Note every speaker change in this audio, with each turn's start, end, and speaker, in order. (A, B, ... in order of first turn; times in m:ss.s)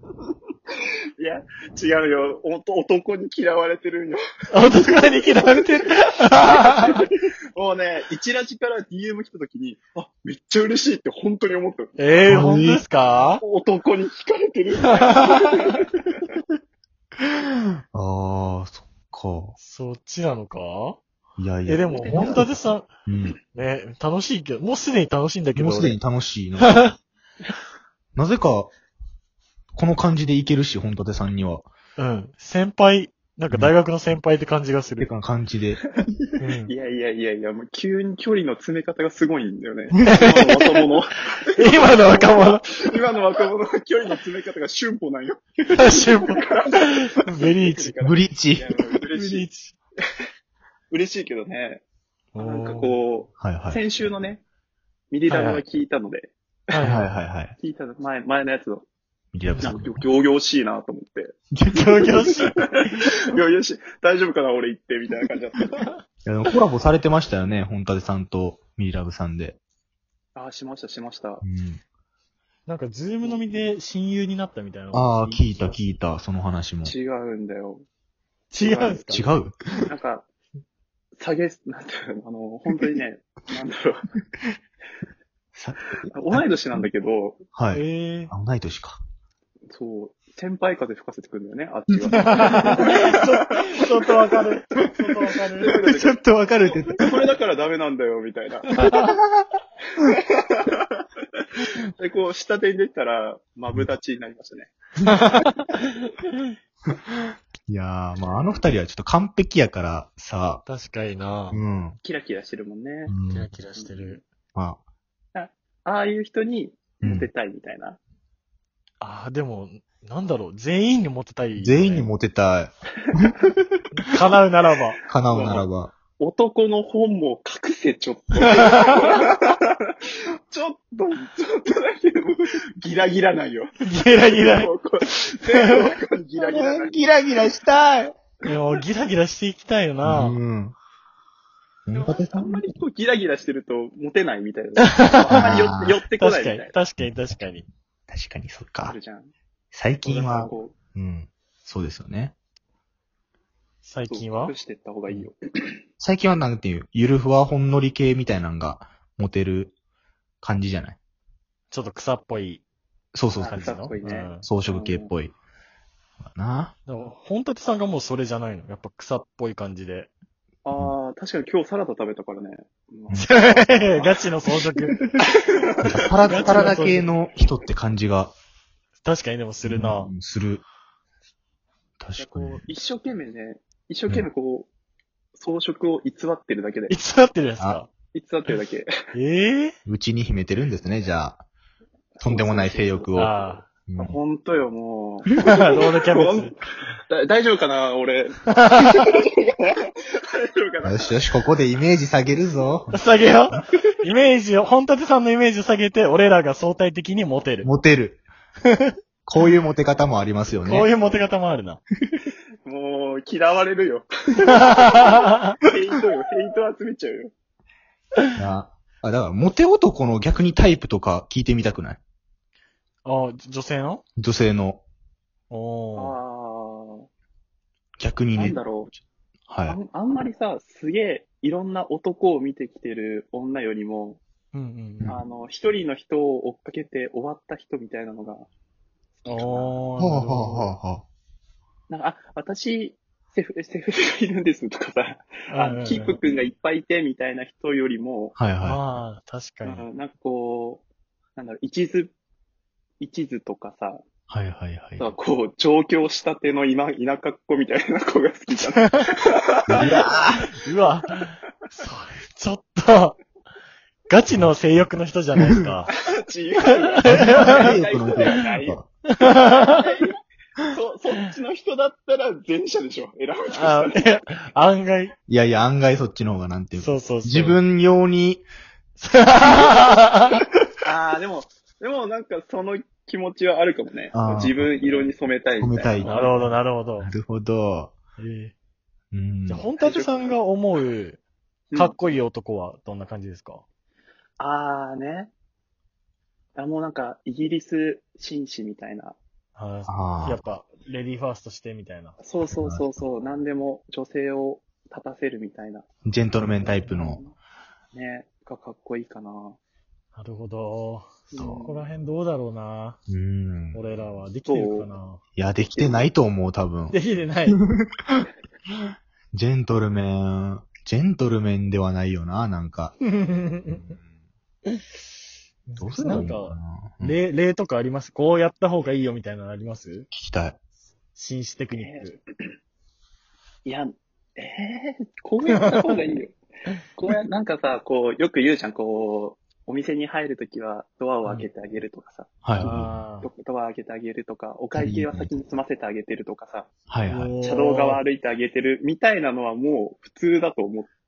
0:01.2-0:05.5 A
0:04.5-0:07.0 B
0:06.3-0:12.0 A
0:12.0-0:13.4 B
0:12.3-0:12.8 C
0:13.4-0:16.1 A
0:14.9-0:15.7 B
0:17.9-0:19.6 C
0:19.6-0:21.0 B
0:21.4-0:22.5 C
0:21.6-0:22.9 B
0:21.9-0:22.5 A
0:23.1-0:23.4 C
0:23.5-0:26.0 B
0:25.6-0:26.7 C
0:26.6-0:26.9 B
0:28.2-0:28.7 C
0:29.7-0:31.7 C
0:32.0-0:35.1 B
0:35.0-0:35.8 C
0:36.4-0:36.7 B
0:36.6-0:49.5 A
0:40.0-0:40.8 B
0:41.5-0:42.7 B
0:45.7-0:48.0 B
0:48.0-0:48.7 C
0:49.1-0:49.7 B
0:50.9-0:51.8 A
0:52.3-0:53.0 B
0:52.4-0:54.4 A
0:53.4-0:53.8 C
0:55.1-0:56.9 A
0:55.3-0:55.6 B
0:56.7-0:57.1 B
0:56.8-0:57.5 C
0:57.6-0:58.8 A
0:59.3-1:00.0 C
0:59.5-0:59.8 B
0:59.6-1:01.3 A
1:01.5-1:02.1 C
1:01.7-1:03.1 B
1:02.0-1:05.7 A
1:06.2-1:09.6 C
1:10.4-1:11.4 A
1:11.4-1:11.8 C
1:12.6-1:15.8 B
1:14.9-1:16.9 C
1:16.8-1:17.8 A
1:18.5-1:19.3 B
1:18.6-1:19.2 A
1:19.1-1:19.6 C
1:19.9-1:20.2 A
1:21.2-1:24.1 A
1:25.6-1:26.4 C
1:26.1-1:27.4 A
1:27.5-1:29.0 C
1:27.7-1:28.3 B
1:29.7-1:33.5 A
1:32.0-1:32.8 C
1:32.1-1:35.8 B
1:35.6-1:38.7 A
1:35.6-1:37.1 C
1:38.7-1:39.2 B
1:40.0-1:41.0 A
1:42.0-1:44.7 A
1:45.0-1:45.7 B
1:47.7-1:50.6 C
1:50.6-1:51.6 B
1:51.5-1:52.0 C
1:52.0-1:53.1 A
1:53.1-1:53.5 C
1:53.3-1:54.3 B
1:53.7-1:54.2 A
1:54.5-1:54.8 C
1:55.3-1:58.0 A
1:57.0-1:57.3 C
1:59.0-2:02.1 B
2:01.6-2:03.6 C
2:03.9-2:05.0 B
2:05.1-2:05.9 C
2:05.3-2:05.7 A
2:06.2-2:09.9 A
2:08.4-2:08.7 B
2:10.5-2:13.7 A
2:13.8-2:14.7 B
2:14.4-2:17.0 A
2:15.5-2:15.9 B
2:16.4-2:18.1 C
2:18.4-2:20.4 B
2:20.0-2:20.8 C
2:21.9-2:22.6 C
2:21.9-2:26.7 A
2:24.8-2:25.6 B
2:25.3-2:26.0 C
2:26.2-2:27.6 B
2:28.1-2:29.0 C
2:28.8-2:29.3 A
2:29.7-2:32.3 C
2:30.0-2:30.7 A
2:33.8-2:34.5 B
2:34.1-2:35.8 A
2:36.0-2:39.8 C
2:40.4-2:41.0 C
2:41.7-2:42.6 B
2:43.1-2:43.6 C
2:43.4-2:45.1 A
2:43.5-2:44.5 B
2:44.4-2:45.3 C
2:46.2-2:46.7 C
2:46.8-2:50.1 B
2:50.6-2:54.2 A
2:53.1-2:55.1 B
2:55.4-2:56.8 A
2:55.8-2:58.3 C
2:56.3-2:57.1 B
2:59.0-3:00.1 B
2:59.6-3:00.6 C
3:02.0-3:02.6 C
3:02.2-3:04.7 A
3:05.4-3:06.9 A
3:06.9-3:07.9 B
3:08.1-3:08.9 A
3:09.1-3:09.7 B
3:09.8-3:11.4 C
3:12.2-3:13.2 A
3:12.2-3:13.3 C
3:13.1-3:13.6 B
3:13.8-3:14.2 C
3:14.0-3:16.6 A
3:15.3-3:16.5 B
3:17.1-3:19.8 A
3:20.4-3:21.1 A
3:20.8-3:23.0 C
3:22.9-3:27.7 B
3:27.6-3:28.2 C
3:28.7-3:28.9 B
3:29.2-3:30.9 C
3:30.6-3:31.8 B
3:32.6-3:37.3 A
3:34.6-3:35.4 B
3:38.4-3:42.0 C
3:43.0-3:44.0 B
3:44.2-3:44.8 C
3:45.5-3:46.2 B
3:46.0-3:47.1 A
3:48.0-3:48.6 C
3:48.4-3:49.0 A
3:49.5-3:49.8 C
3:49.6-3:54.2 A
3:54.5-3:55.2 B
3:55.0-3:58.5 A
3:59.2-3:59.8 A
3:59.2-4:00.7 B
4:00.0-4:01.0 C
4:01.9-4:08.4 A
4:05.5-4:06.2 B
4:08.4-4:08.8 C
4:08.6-4:09.8 B
4:09.6-4:10.8 A
4:11.4-4:12.1 A
4:13.0-4:14.0 A
4:14.3-4:15.1 C
4:15.0-4:19.9 A
4:19.7-4:20.5 C
4:19.8-4:23.2 B
4:24.1-4:25.9 B
4:26.0-4:28.8 A
4:26.9-4:27.8 B
4:27.0-4:28.9 C
4:29.1-4:29.8 B
4:29.4-4:30.1 A
4:30.7-4:34.2 A
4:33.5-4:35.1 B
4:35.3-4:38.4 C
4:36.8-4:37.6 B
4:39.0-4:40.4 B
4:40.8-4:46.5 A
4:44.1-4:44.7 C
4:45.6-4:46.1 C
4:46.0-4:47.1 B
4:47.0-4:47.9 C
4:48.2-4:48.5 B
4:49.1-4:49.7 C
4:49.5-4:51.2 B
4:49.8-4:50.4 A
4:51.7-4:52.0 A
4:51.7-4:53.6 B
4:54.4-4:55.3 A
4:56.6-4:59.2 A
4:59.5-5:02.2 B
4:59.9-5:00.4 C
5:02.2-5:05.8 A
5:02.4-5:03.0 C
5:06.0-5:07.2 C
5:06.8-5:07.3 A
5:07.9-5:09.6 A
5:10.1-5:13.0 B
5:11.3-5:11.9 A
5:13.1-5:13.8 C
5:13.7-5:15.2 B
5:14.5-5:14.9 A
5:15.4-5:17.0 C
5:15.7-5:16.0 A
5:16.9-5:17.6 B
5:17.6-5:18.2 C
5:19.3-5:23.0 C
5:23.0-5:24.0 B
5:23.8-5:24.1 C
5:25.7-5:30.1 B
5:25.8-5:27.2 C
5:30.1-5:30.6 C
5:31.1-5:32.2 B
5:31.7-5:32.1 A
5:33.6-5:36.4 A
5:36.9-5:46.7 A
5:42.4-5:43.0 C
5:42.6-5:43.3 B
5:44.8-5:45.3 C
5:46.9-5:47.3 C
5:47.1-5:48.0 B
5:47.4-5:50.9 A